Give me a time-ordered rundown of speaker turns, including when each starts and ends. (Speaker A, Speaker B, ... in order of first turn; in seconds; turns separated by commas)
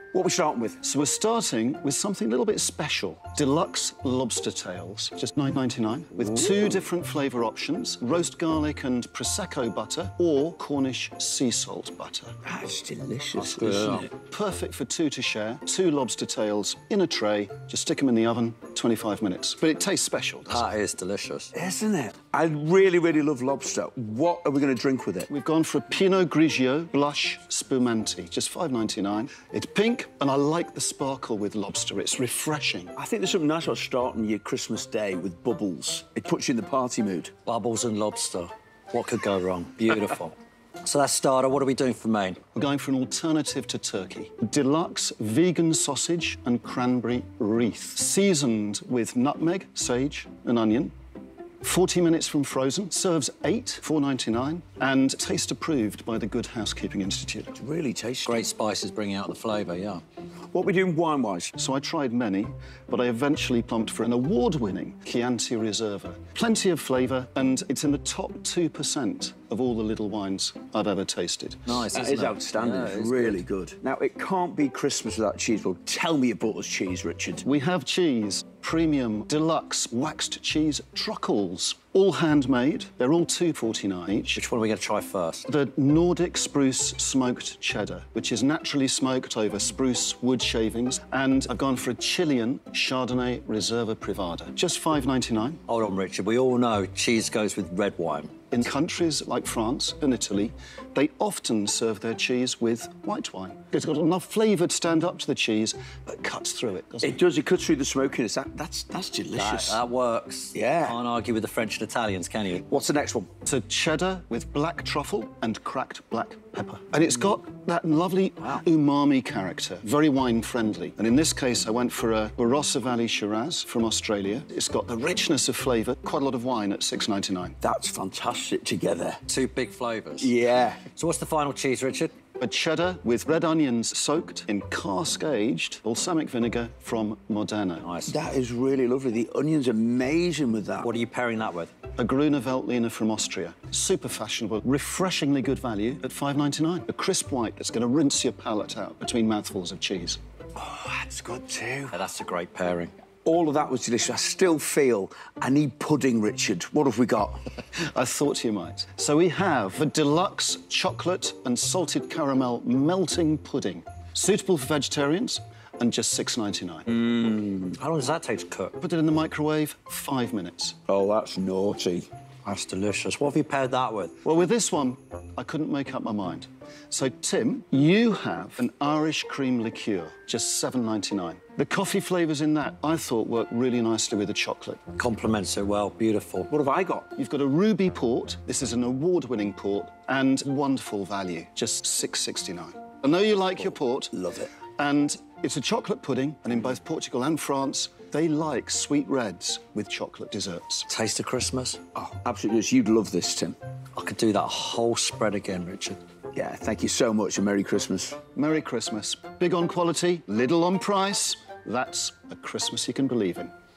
Speaker A: 0.1-0.8, Speaker B: 0.8-12.4, Speaker A: 12.4-14.1, Speaker C: 13.4-14.1, Speaker B: 14.2-20.6, Speaker C: 20.5-21.5, Speaker A: 21.5-25.3, Speaker B: 25.3-33.0, Speaker A: 33.0-37.3, Speaker C: 37.5-42.4, Speaker B: 42.5-50.9, Speaker B: 51.6-57.6, Speaker A: 57.6-58.5, Speaker C: 58.3-60.0, Speaker A: 60.5-61.5, Speaker B: 61.6-71.8, Speaker C: 71.7-73.4, Speaker A: 71.9-77.5, Speaker B: 77.4-84.4, Speaker C: 84.3-85.5, Speaker B: 85.5-95.6, Speaker C: 95.7-98.3, Speaker B: 98.5-107.2, Speaker A: 107.0-109.8, Speaker C: 109.3-112.7, Speaker A: 110.5-111.0, Speaker A: 112.7-113.3, Speaker B: 113.5-127.6, Speaker A: 127.6-129.2, Speaker C: 129.3-130.3, Speaker A: 130.2-130.8, Speaker C: 130.9-132.1, Speaker B: 132.4-137.9, Speaker C: 137.8-138.2, Speaker A: 138.1-140.9, Speaker C: 140.8-141.7, Speaker B: 142.0-150.2, Speaker A: 150.6-152.0, Speaker C: 151.9-152.9, Speaker A: 153.2-157.4, Speaker B: 157.8-166.9, Speaker A: 166.9-167.7, Speaker C: 167.7-168.8, Speaker B: 168.8-170.8, Speaker A: 170.9-172.1, Speaker C: 172.4-174.1, Speaker B: 174.2-184.8, Speaker C: 185.0-186.5, Speaker A: 186.5-187.1, Speaker B: 187.2-194.1, Speaker A: 194.1-194.5, Speaker B: 194.8-200.9, Speaker C: 200.9-201.8, Speaker A: 201.9-203.6, Speaker C: 204.0-206.0, Speaker A: 206.3-208.2, Speaker B: 208.3-213.5